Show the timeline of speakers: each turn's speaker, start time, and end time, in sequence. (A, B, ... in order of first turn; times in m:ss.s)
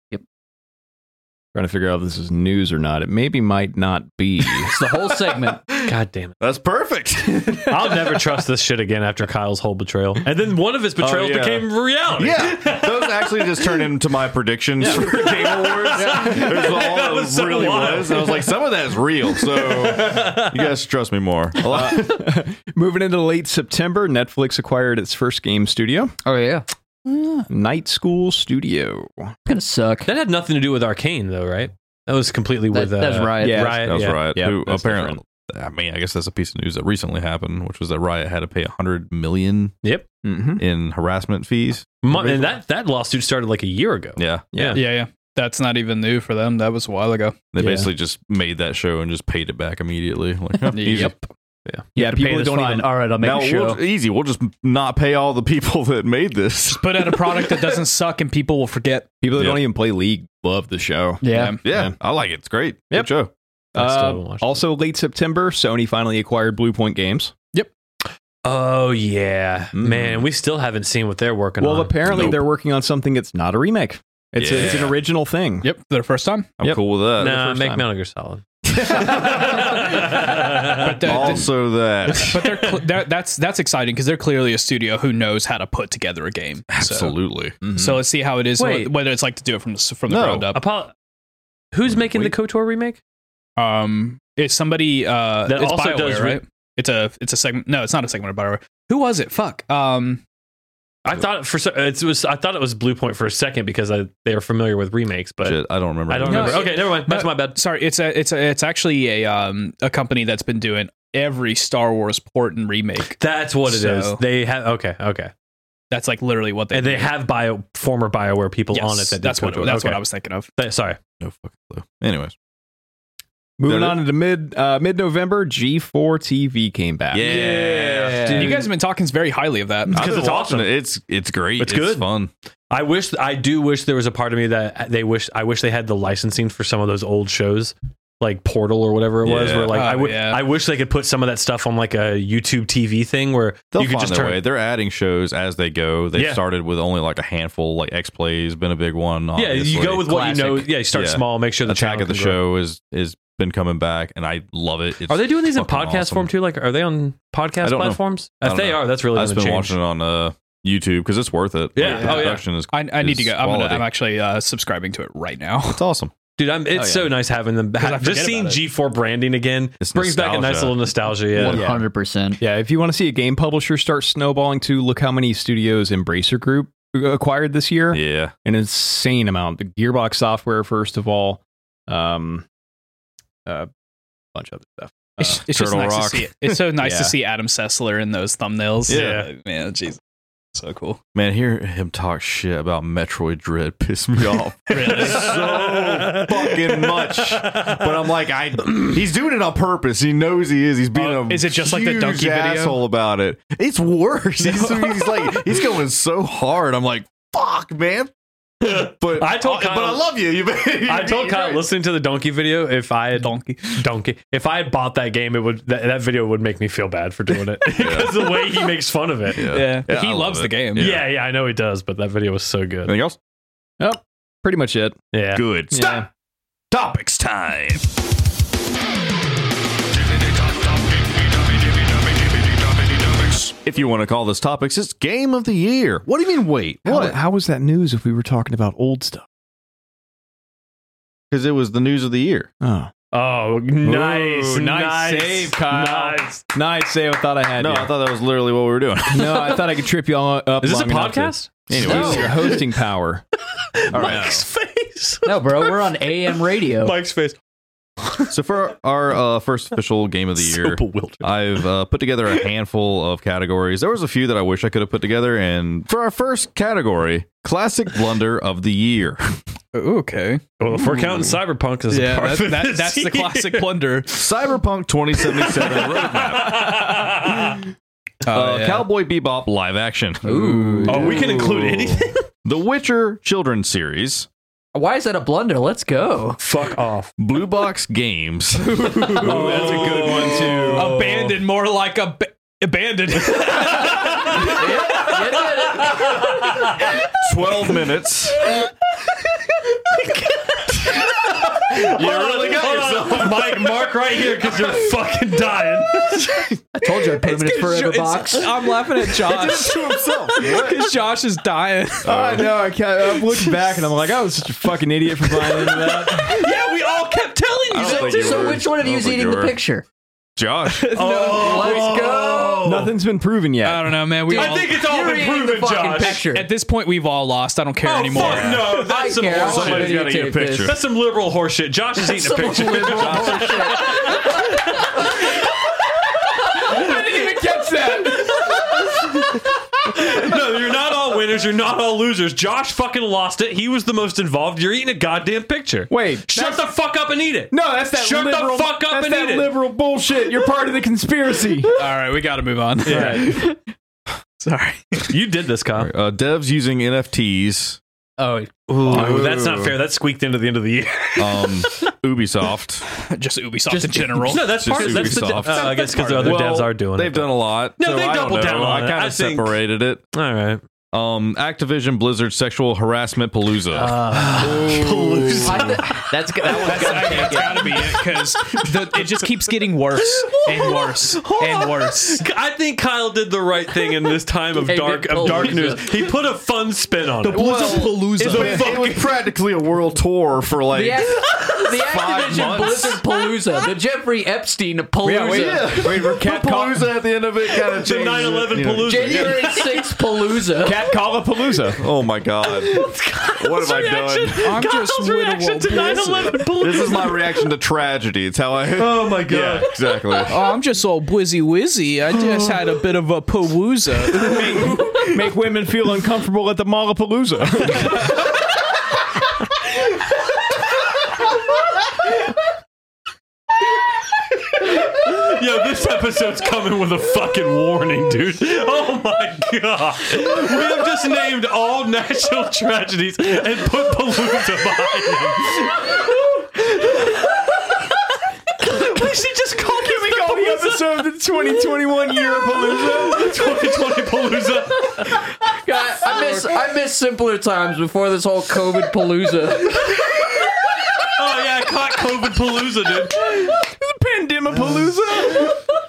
0:01.6-0:04.8 A
0:04.6-0:05.6 B
0:05.8-0:08.0 C
0:05.8-0:06.4 D
0:07.6-0:13.5 D
0:11.0-0:22.2 C
0:14.8-0:15.3 A
0:15.0-0:18.5 D
0:15.9-0:16.6 A
0:19.3-0:20.7 D
0:21.6-0:26.2 A
0:26.2-0:26.6 B
0:27.5-0:29.3 A
0:29.5-0:30.1 B
0:30.1-0:34.2 D
0:32.7-0:33.8 B
0:33.4-0:35.2 A
0:33.8-0:39.8 C
0:40.2-0:40.6 A
0:40.6-0:41.9 C
0:42.0-0:44.8 D
0:42.1-0:42.5 A
0:44.2-0:44.5 C
0:44.5-0:44.8 A
0:44.7-0:47.4 E
0:47.5-0:51.2 C
0:47.6-0:47.9 A
0:50.7-0:51.1 E
0:52.0-0:52.9 A
0:52.0-0:53.8 B
0:53.2-0:57.8 C
0:56.7-0:59.1 E
0:59.2-1:02.0 A
0:59.4-0:59.6 C
1:01.2-1:01.6 B
1:01.2-1:01.6 E
1:01.6-1:03.3 C
1:03.8-1:04.6 D
1:03.8-1:07.3 A
1:08.4-1:12.4 D
1:09.8-1:10.2 A
1:11.6-1:15.7 A
1:12.1-1:12.4 C
1:14.4-1:15.0 C
1:15.6-1:16.5 E
1:16.6-1:17.4 C
1:16.6-1:17.8 A
1:17.2-1:21.4 D
1:18.8-1:19.4 C
1:20.7-1:21.5 E
1:21.0-1:22.4 C
1:22.2-1:22.8 D
1:22.2-1:30.6 E
1:26.7-1:27.6 C
1:27.6-1:28.0 A
1:28.6-1:28.9 D
1:30.1-1:30.5 C
1:30.5-1:30.9 D
1:31.7-1:33.0 D
1:31.9-1:32.3 C
1:33.6-1:40.2 E
1:35.5-1:36.4 D
1:41.0-1:47.6 D
1:45.4-1:46.7 C
1:46.3-1:54.2 E
1:46.3-1:46.6 A
1:53.2-1:55.3 D
1:55.9-1:57.1 E
1:56.7-2:00.0 D
1:58.7-2:00.5 E
2:00.6-2:01.0 D
2:01.2-2:02.4 C
2:03.6-2:07.6 A
2:03.7-2:04.0 C
2:07.1-2:08.6 C
2:07.2-2:10.0 E
2:08.3-2:08.7 A
2:09.9-2:10.7 D
2:09.9-2:12.3 C
2:11.6-2:12.1 D
2:12.7-2:24.4 D
2:19.2-2:19.8 C
2:19.7-2:20.4 E
2:23.7-2:30.3 C
2:26.1-2:26.4 D
2:29.4-2:32.4 D
2:30.1-2:30.7 B
2:30.8-2:36.3 C
2:35.1-2:39.8 D
2:37.6-2:43.9 C
2:41.8-2:42.4 D
2:41.8-2:45.8 E
2:45.8-2:46.1 C
2:46.4-2:51.6 D
2:46.7-2:47.1 A
2:47.8-2:48.6 E
2:49.8-2:51.6 C
2:51.4-2:52.4 B
2:51.4-2:51.8 A
2:52.4-3:02.5 A
2:57.9-2:58.3 C
3:04.3-3:05.4 A
3:05.2-3:10.0 E
3:05.2-3:07.1 C
3:08.9-3:09.3 C
3:08.9-3:09.3 D
3:10.5-3:11.0 E
3:11.1-3:28.1 C
3:14.7-3:15.7 E
3:14.8-3:18.1 D
3:21.0-3:22.8 E
3:24.5-3:24.8 D
3:28.6-3:30.1 D
3:28.6-3:31.6 C
3:30.8-3:39.5 D
3:33.2-3:33.8 E
3:37.8-3:38.2 C
3:39.3-3:41.1 C
3:39.5-3:40.9 E
3:40.8-3:42.9 D
3:42.9-3:43.2 C
3:43.8-3:45.0 A
3:45.1-3:45.4 D
3:45.4-3:46.0 C
3:45.7-3:46.1 A
3:46.7-3:47.8 C
3:53.1-3:57.2 C
3:56.8-3:59.3 A
4:01.3-4:02.5 C
4:02.6-4:02.9 A
4:03.1-4:06.4 D
4:03.8-4:07.9 A
4:07.6-4:09.6 C
4:09.1-4:13.2 A
4:10.6-4:12.5 D
4:11.7-4:12.4 C
4:13.8-4:17.4 D
4:13.9-4:14.4 A
4:13.9-4:14.4 C
4:15.2-4:17.0 B
4:18.0-4:18.3 D
4:18.3-4:29.4 C
4:20.4-4:21.3 D
4:29.7-4:31.4 E
4:30.6-4:33.7 D
4:31.9-4:34.4 E
4:34.1-4:36.9 C
4:35.4-4:37.6 D
4:38.2-4:38.9 E
4:38.3-4:41.7 C
4:40.3-4:41.0 E
4:40.3-4:41.8 A
4:40.9-4:42.3 D
4:42.4-4:44.3 C
4:44.7-4:46.4 B
4:46.4-4:47.1 D
4:47.2-4:50.4 C
4:48.7-4:51.2 A
4:49.3-4:50.2 E
4:49.3-4:49.9 D
4:50.7-4:54.5 E
4:53.3-4:57.0 D
4:54.0-4:56.2 B
4:57.2-4:58.4 C
5:00.7-5:06.3 D
5:01.7-5:03.9 C
5:06.8-5:08.5 B
5:07.0-5:12.3 E
5:09.2-5:10.9 C
5:12.0-5:12.5 C
5:12.0-5:16.5 A
5:16.1-5:18.6 D
5:17.7-5:19.6 C
5:17.8-5:19.8 B
5:20.4-5:22.9 C
5:20.7-5:21.9 E
5:20.9-5:22.1 D
5:21.0-5:22.7 B
5:22.6-5:24.1 A
5:23.6-5:24.9 E
5:24.3-5:26.2 D
5:24.3-5:26.5 B
5:26.2-5:28.7 E
5:27.8-5:30.0 D
5:28.1-5:28.7 C
5:28.2-5:30.8 B
5:29.2-5:30.8 C
5:30.6-5:35.2 D
5:32.1-5:34.7 B
5:32.8-5:33.6 A
5:36.6-5:37.4 B
5:36.6-5:38.8 A
5:39.9-5:49.5 D
5:45.9-5:46.7 A
5:47.5-5:51.7 A
5:51.8-5:53.6 E
5:52.9-5:53.4 A
5:52.9-5:53.4 D
5:54.4-5:55.1 E
5:55.1-5:55.9 D
5:55.8-5:57.8 C
5:58.2-5:58.6 B
5:58.7-5:59.4 C
5:58.7-6:01.9 D
5:58.8-5:59.8 A
6:01.2-6:02.9 C
6:03.0-6:04.5 E
6:03.7-6:05.7 B
6:04.2-6:09.6 D
6:04.4-6:10.0 C
6:10.1-6:10.6 D
6:10.9-6:14.0 C
6:13.7-6:18.0 B
6:13.8-6:15.8 D
6:15.5-6:15.8 C
6:16.5-6:22.3 E
6:21.2-6:29.1 D
6:24.7-6:26.1 B
6:27.3-6:33.1 C
6:27.3-6:28.6 E
6:27.4-6:28.7 B
6:28.3-6:28.7 A
6:30.7-6:35.8 B
6:35.0-6:36.9 A
6:35.3-6:39.6 C
6:37.7-6:40.2 D
6:38.8-6:40.8 B
6:40.6-6:41.8 A
6:41.8-6:44.6 C
6:42.5-6:47.5 D
6:44.4-6:46.5 E
6:46.5-6:50.4 C
6:48.8-6:50.3 D
6:50.3-6:54.8 E
6:54.1-6:58.1 A
7:04.8-7:15.9 D
7:18.7-7:20.6 D
7:19.8-7:23.5 A
7:22.9-7:25.2 D
7:25.4-7:30.0 B
7:30.1-7:30.5 D
7:31.0-7:33.3 D
7:33.2-7:35.6 A